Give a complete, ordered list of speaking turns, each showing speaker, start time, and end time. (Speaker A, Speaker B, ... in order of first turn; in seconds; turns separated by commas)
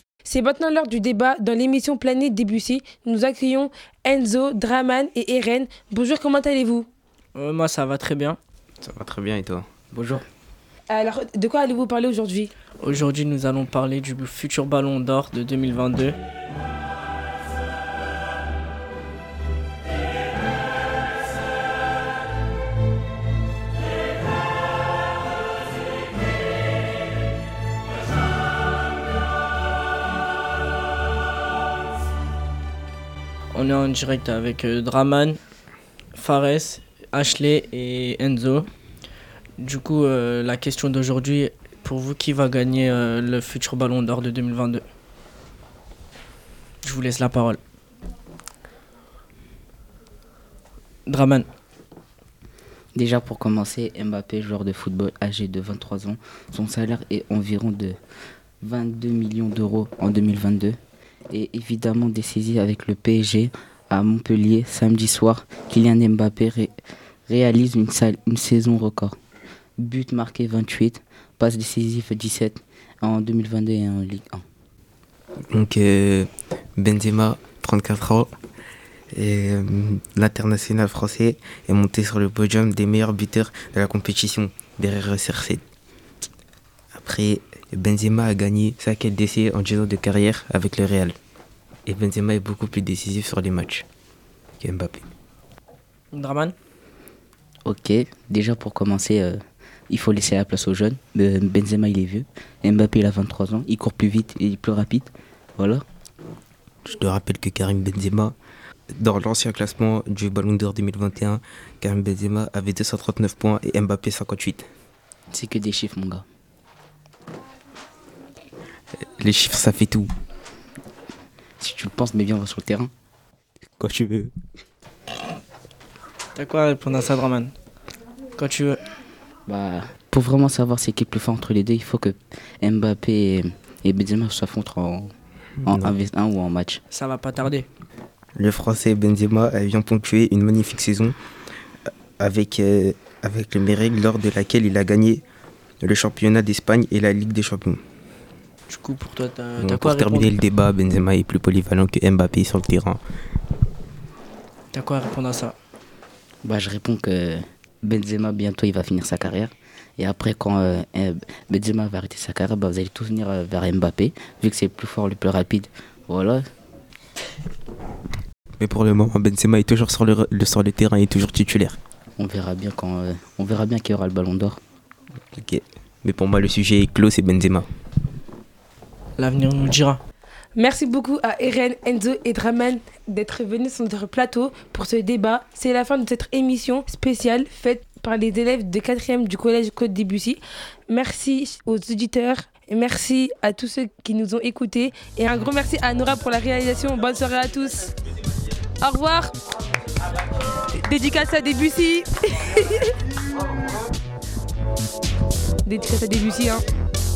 Speaker A: 0.2-6.9, Speaker B: 7.3-8.4, Speaker C: 8.8-9.7, Speaker D: 9.9-10.2, Speaker A: 10.9-12.5, Speaker B: 12.8-16.2, Speaker B: 33.5-35.4, Speaker B: 36.1-38.7, Speaker B: 39.6-44.9, Speaker B: 46.8-47.6, Speaker B: 51.1-51.5, Speaker D: 53.0-58.0, Speaker D: 58.6-60.8, Speaker D: 61.3-66.7, Speaker D: 67.3-69.2, Speaker D: 69.8-74.4, Speaker C: 75.5-78.3, Speaker C: 79.2-85.6, Speaker C: 87.0-91.2, Speaker C: 91.9-93.8, Speaker C: 94.6-95.0, Speaker B: 96.1-96.5, Speaker D: 97.7-99.4, Speaker D: 99.9-105.8, Speaker C: 106.8-108.3, Speaker C: 109.0-114.7, Speaker D: 115.3-116.2, Speaker C: 119.2-120.1, Speaker D: 121.6-122.9, Speaker C: 123.8-124.3, Speaker B: 126.3-127.5, Speaker B: 128.4-128.8, Speaker D: 129.5-135.1, Speaker C: 135.6-135.9, Speaker D: 135.7-136.8, Speaker B: 136.9-137.7, Speaker C: 138.4-141.2, Speaker C: 142.2-145.2, Speaker C: 145.8-147.8, Speaker B: 148.7-150.3, Speaker C: 149.6-153.0, Speaker B: 154.7-155.6, Speaker D: 156.4-166.4, Speaker C: 168.6-171.8, Speaker D: 172.2-174.6, Speaker C: 175.3-177.7, Speaker B: 179.2-180.0, Speaker A: 180.6-197.9, Speaker A: 198.8-199.3, Speaker A: 200.8-202.9, Speaker A: 205.7-206.6